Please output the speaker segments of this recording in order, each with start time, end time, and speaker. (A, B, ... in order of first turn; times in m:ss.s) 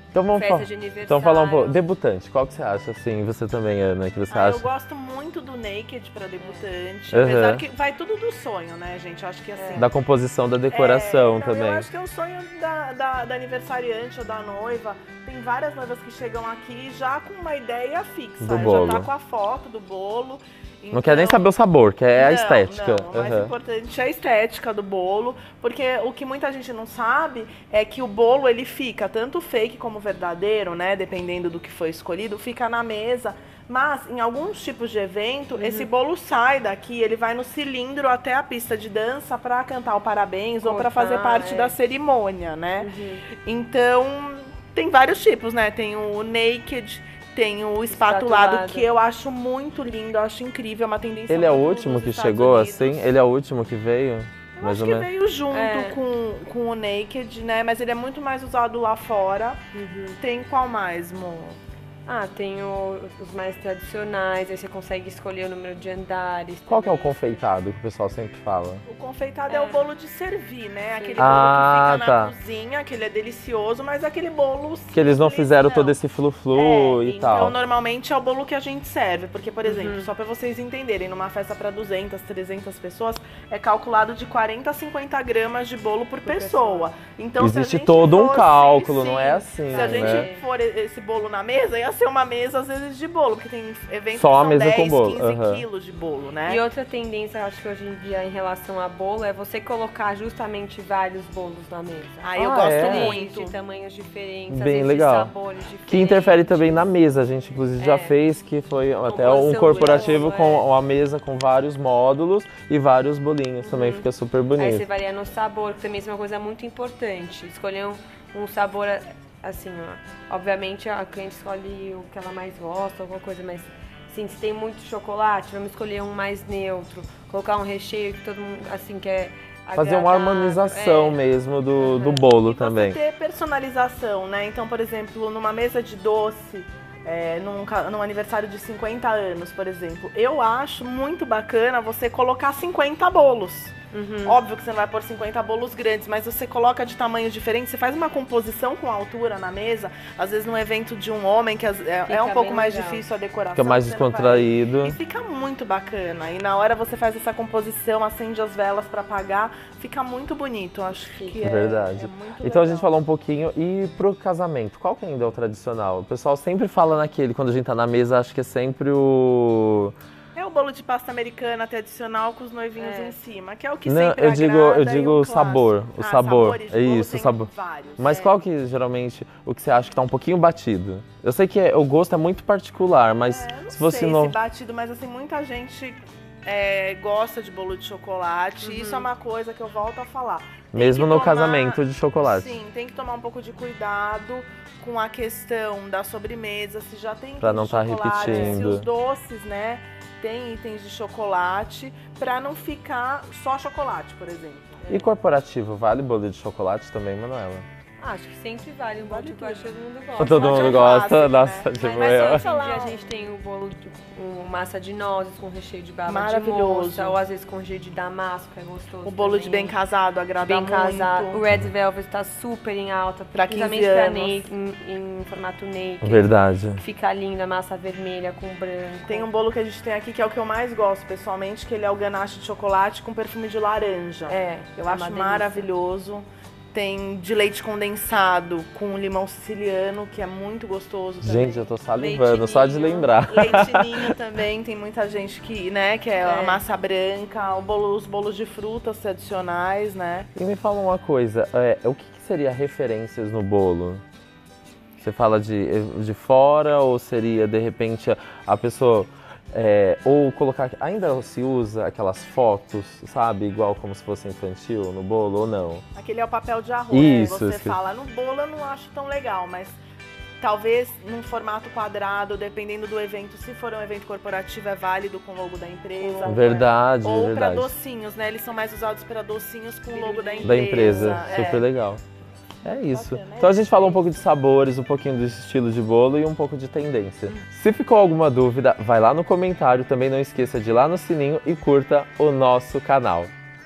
0:00.1-0:04.7 A
0:00.3-0:01.8 B
0:04.3-0:09.9 C
0:06.4-0:06.7 B
0:07.1-0:07.6 A
0:09.6-0:09.9 B
0:09.8-0:11.9 A
0:10.7-0:21.5 C
0:18.4-0:19.1 A
0:20.9-0:23.5 A
0:22.2-0:42.9 C
0:35.6-0:35.9 B
0:40.6-0:41.8 B
0:42.8-0:43.2 B
0:43.4-0:53.1 C
0:47.9-0:48.9 B
0:51.3-0:55.1 A
0:54.6-0:59.6 C
0:55.5-0:56.0 B
0:59.7-1:00.2 B
1:00.2-1:01.6 C
1:02.1-1:07.4 B
1:06.7-1:08.8 A
1:08.9-1:16.0 C
1:09.5-1:09.9 B
1:11.0-1:11.5 B
1:11.2-1:12.3 A
1:14.9-1:17.6 A
1:16.5-1:36.6 C
1:19.6-1:20.1 B
1:26.2-1:26.9 B
1:27.4-1:30.3 A
1:29.7-1:30.4 B
1:34.1-1:35.6 A
1:36.5-1:46.9 B
1:42.2-1:43.6 C
1:42.4-1:43.2 A
1:44.5-1:45.3 A
1:45.9-1:54.9 A
1:47.8-1:48.2 B
1:49.1-1:50.7 B
1:49.2-1:50.4 C
1:53.6-2:11.2 B
2:09.8-2:13.0 A
2:11.8-2:12.3 B
2:12.2-2:23.7 C
2:23.9-2:24.4 B
2:24.3-2:42.9 C
2:32.0-2:33.0 B
2:33.6-2:35.0 A
2:41.1-2:41.4 B
2:41.4-2:50.0 A
2:50.4-2:58.4 C
2:52.8-2:53.2 B
2:53.9-3:04.4 A
3:03.3-3:24.9 C
3:08.6-3:09.1 B
3:10.7-3:12.5 A
3:17.4-3:18.9 A
3:18.2-3:18.7 B
3:24.8-3:25.1 B
3:24.9-3:27.7 A
3:28.0-3:31.1 B
3:29.0-3:33.0 C
3:30.2-3:32.5 A
3:31.8-3:39.8 B
3:36.1-3:37.2 C
3:39.0-3:41.4 C
3:40.4-3:49.3 B
3:43.3-3:44.5 C
3:46.0-3:46.8 A
3:49.1-4:01.7 C
3:54.3-3:55.7 B
4:01.2-4:04.1 A
4:02.0-4:03.2 B
4:03.2-4:10.3 C
4:06.2-4:06.6 B
4:10.4-4:14.0 A
4:15.0-4:25.8 A
4:26.0-4:29.8 C
4:26.9-4:27.8 A
4:30.4-4:41.6 C
4:36.0-4:36.7 B
4:36.3-4:37.7 A
4:39.9-4:41.7 B
4:40.4-4:42.0 A
4:42.6-4:53.3 A
4:42.9-4:44.3 C